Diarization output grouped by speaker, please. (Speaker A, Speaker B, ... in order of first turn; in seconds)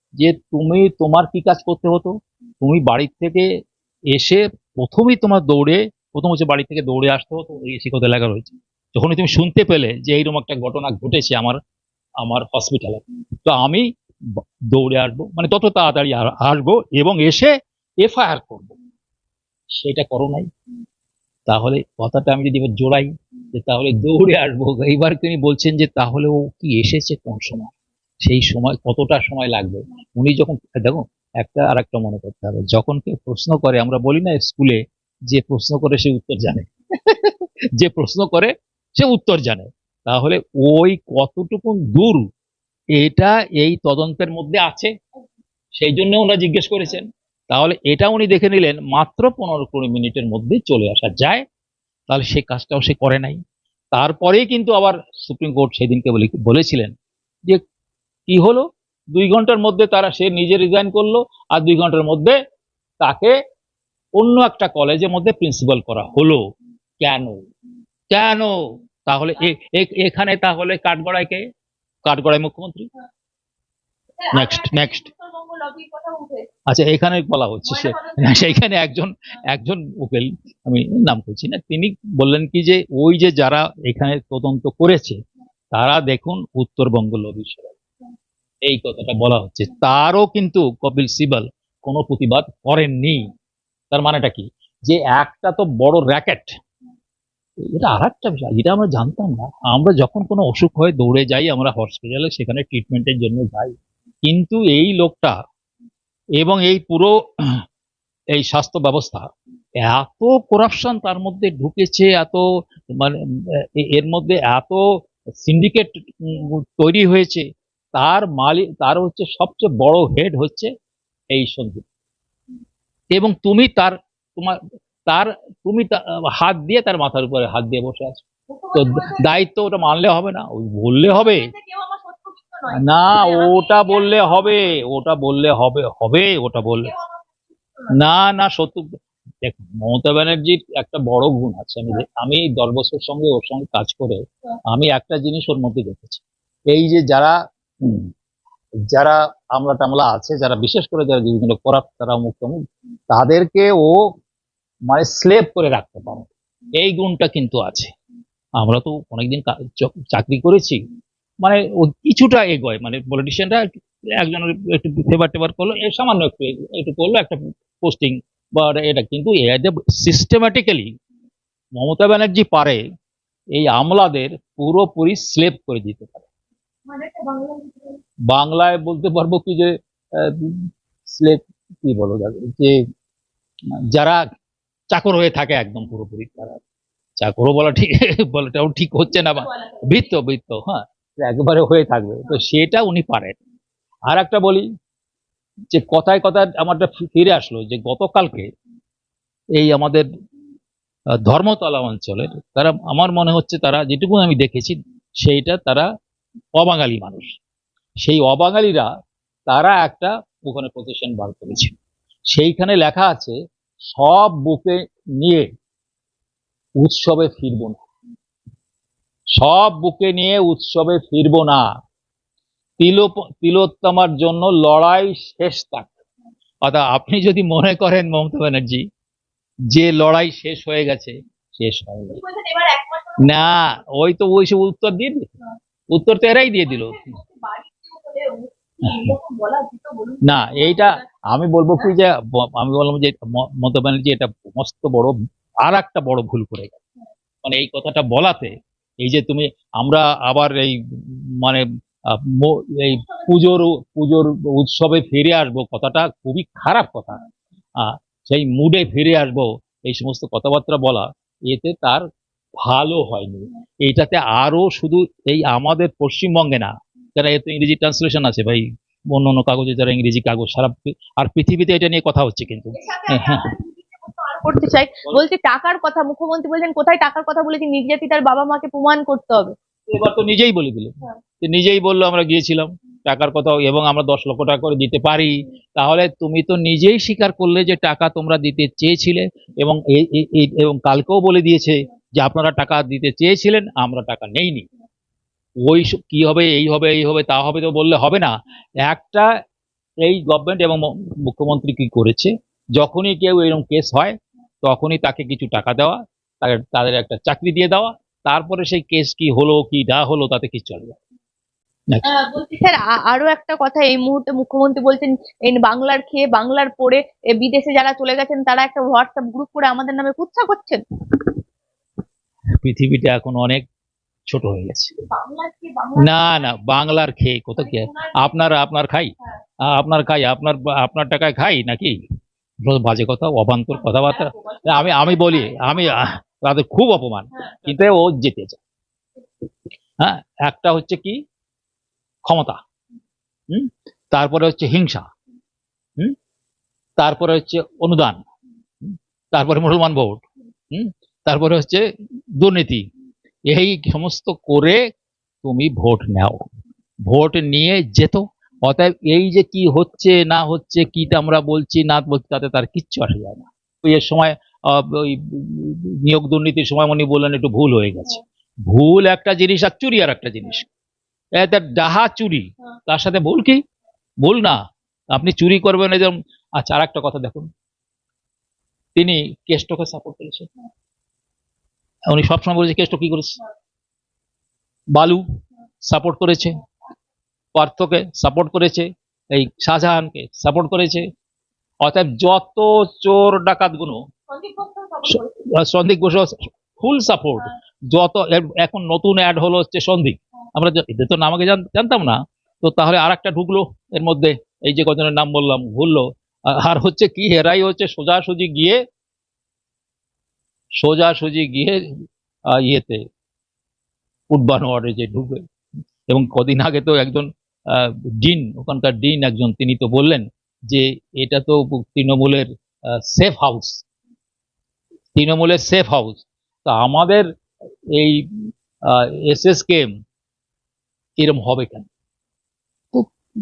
Speaker A: 0.2-3.5, 4.1-11.6, 12.2-18.8, 19.8-20.5, 21.5-27.7, 28.2-42.3, 43.0-44.9, 45.8-51.4, 52.1-53.4, 53.9-57.0, 58.3-62.4, 63.0-63.4, 64.2-66.4, 67.0-67.5, 68.1-71.4, 72.0-72.9, 74.3-75.1, 76.7-85.2, 85.7-87.8, 88.6-93.3, 93.9-96.5, 97.6-103.8, 104.3-105.4, 106.4-107.6, 108.3-109.3, 109.8-114.8, 115.4-120.7, 121.3-121.8, 123.1-131.5, 132.7-136.9, 137.9-138.9, 139.4-148.1, 148.9-154.0, 154.9-157.9, 158.6-160.8, 161.4-163.7, 164.2-170.9, 171.8-172.8, 173.5-176.3, 178.3-182.8, 183.9-184.2, 184.9-186.6, 187.2-193.4, 194.1-194.7, 195.7-198.5, 199.6-200.1, 201.2-205.9, 206.6-207.4, 208.0-208.9, 209.5-211.8, 212.3-213.3, 213.9-215.5, 216.8-217.8, 219.3-221.7, 222.8-226.0, 226.6-228.8, 229.7-232.2, 233.2-235.3, 235.9-237.2, 240.2-246.8, 247.4-257.2, 257.8-262.1, 262.6-273.5, 279.9-294.7, 295.6-299.3, 300.0-311.0, 322.6-323.6, 324.3-324.9, 326.0-329.1, 329.6-332.0, 332.6-338.6, 340.0-341.2, 342.3-342.6, 343.5-345.1, 347.0-348.2, 348.8-351.8, 352.4-352.9, 353.5-354.8, 355.4-356.4, 357.1-370.7, 371.4-373.6, 374.2-374.6, 375.1-377.5, 379.0-380.5, 382.1-383.4, 384.9-385.2, 385.9-386.6, 387.6-391.1, 391.8-394.0, 395.1-408.8, 410.8-411.8, 412.5-413.0, 414.3-415.4, 416.1-423.9, 425.2-427.3, 427.9-428.3, 428.9-429.9, 431.2-431.9
Speaker B: 74.2-76.5, 77.7-78.6, 128.5-129.2, 131.1-134.5, 136.8-137.9, 176.9-178.0, 232.1-233.4, 236.7-241.0, 272.8-279.6, 312.0-320.8, 325.1-326.6, 327.6-328.4, 333.8-336.0, 394.3-395.4